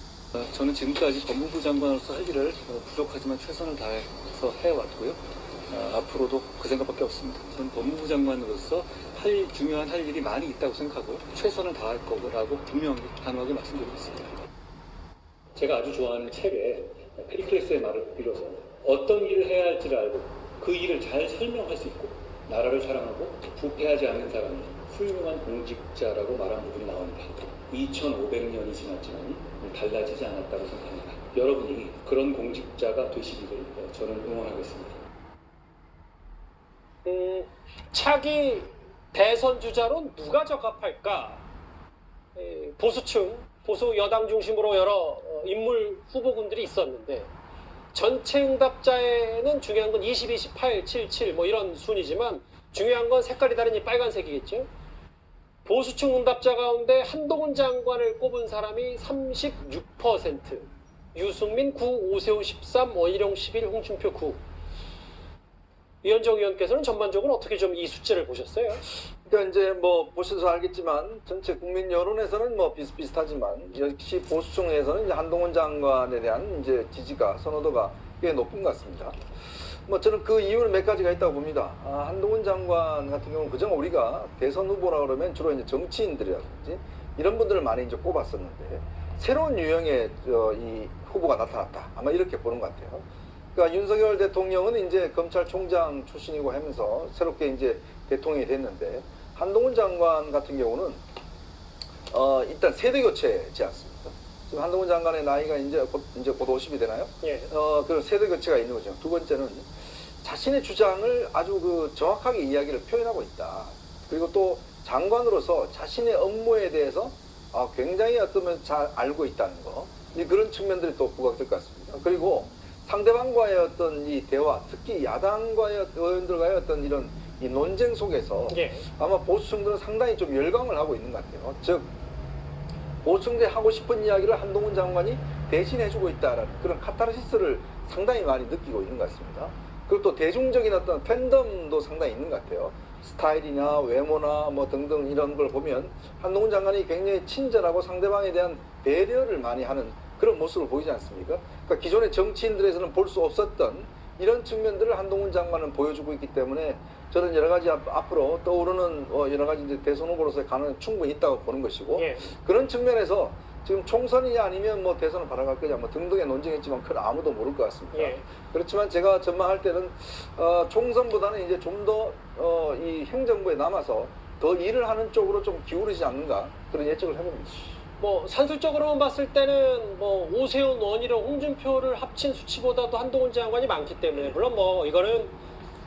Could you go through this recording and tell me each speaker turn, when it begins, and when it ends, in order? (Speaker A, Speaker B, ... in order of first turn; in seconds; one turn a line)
Speaker A: 0.3-14.4
Speaker A: 15.6-35.0
Speaker B: 37.0-41.4
Speaker B: 42.4-47.3
Speaker B: 47.9-54.7
Speaker B: 55.6-64.4
Speaker B: 66.0-68.8
Speaker C: 69.3-79.2
Speaker C: 79.9-101.0
Speaker C: 102.1-109.7
Speaker B: 107.2-107.5
Speaker C: 110.2-131.9
Speaker B: 128.5-128.8
Speaker C: 133.0-177.6
Speaker B: 161.9-162.3
Speaker B: 167.9-168.2
Speaker B: 178.0-185.4